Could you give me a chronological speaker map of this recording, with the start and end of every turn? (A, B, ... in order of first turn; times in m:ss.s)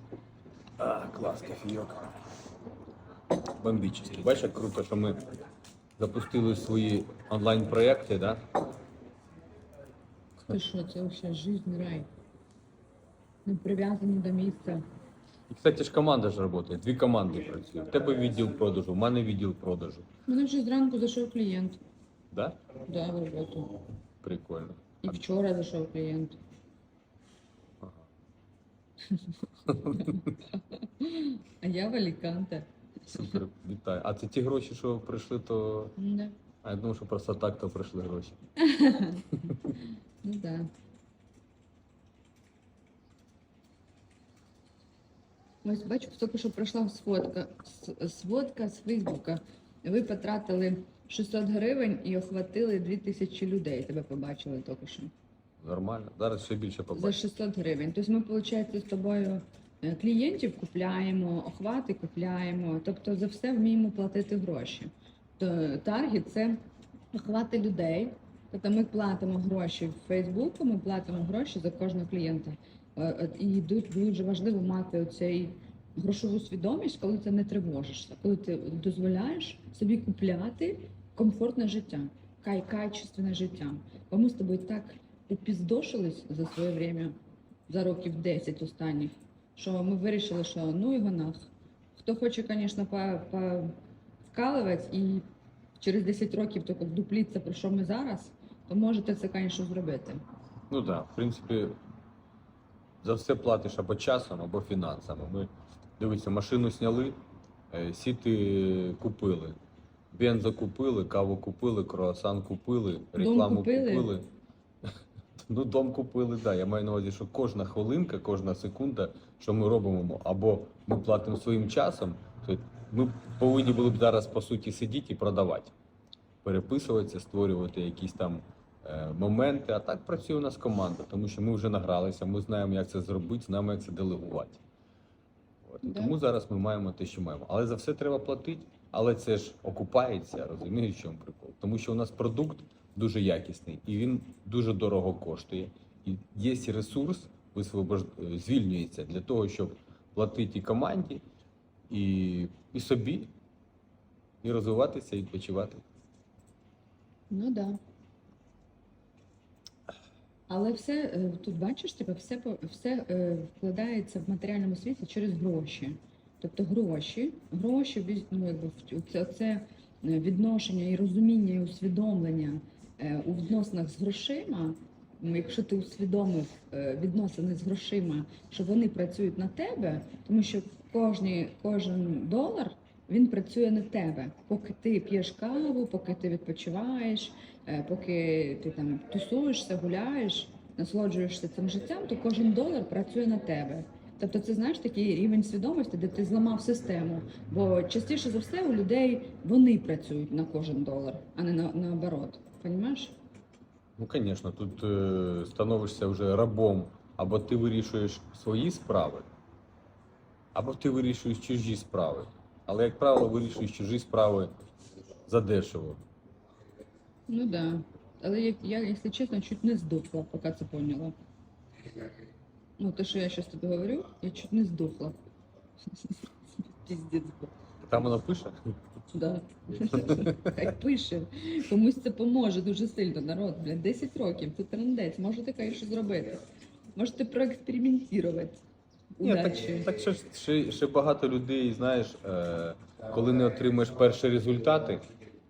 0:00.8-0:02.1 A
0:03.6-0:05.2 A
0:06.0-0:08.4 A
0:10.5-0:12.1 B
0:13.4-0:14.8 B
0:15.5-0:20.0 A
0:20.3-0:21.8 B
0:22.3-0:22.6 A
0:22.8-0:23.8 B
0:24.2-0:25.2 A
0:25.0-0:26.4 B
0:27.8-0:28.1 A
0:29.1-0:33.4 B
0:29.6-0:30.3 A
0:33.1-0:36.0 A
0:36.0-0:36.3 B
0:36.6-0:38.4 A
0:38.6-0:40.7 B
0:45.6-0:55.1 B
0:55.6-0:57.1 A
0:56.9-1:06.6 B
1:07.1-1:27.1 B
1:27.7-1:33.7 B
1:34.3-1:35.2 B
1:35.8-1:40.2 B
1:40.7-1:41.8 A
1:43.0-1:47.2 A
1:47.7-1:49.6 A
1:50.1-1:54.2 A
1:53.2-1:54.2 B
1:55.4-2:05.7 A
2:06.4-2:14.6 A
2:15.6-2:31.2 A
2:15.8-2:16.1 B
2:31.9-2:33.3 A
2:34.4-2:35.8 A
2:37.3-2:37.8 B
2:40.5-3:23.1 B
3:24.0-3:29.3 A
3:30.5-3:34.5 A
3:35.3-3:36.0 A
3:37.3-3:41.1 B
3:42.8-3:45.2 B
3:45.9-3:47.5 B
3:47.9-3:48.5 A
3:49.1-3:56.4 B
3:57.0-3:58.6 B
3:59.2-3:59.9 B
3:59.2-4:05.1 A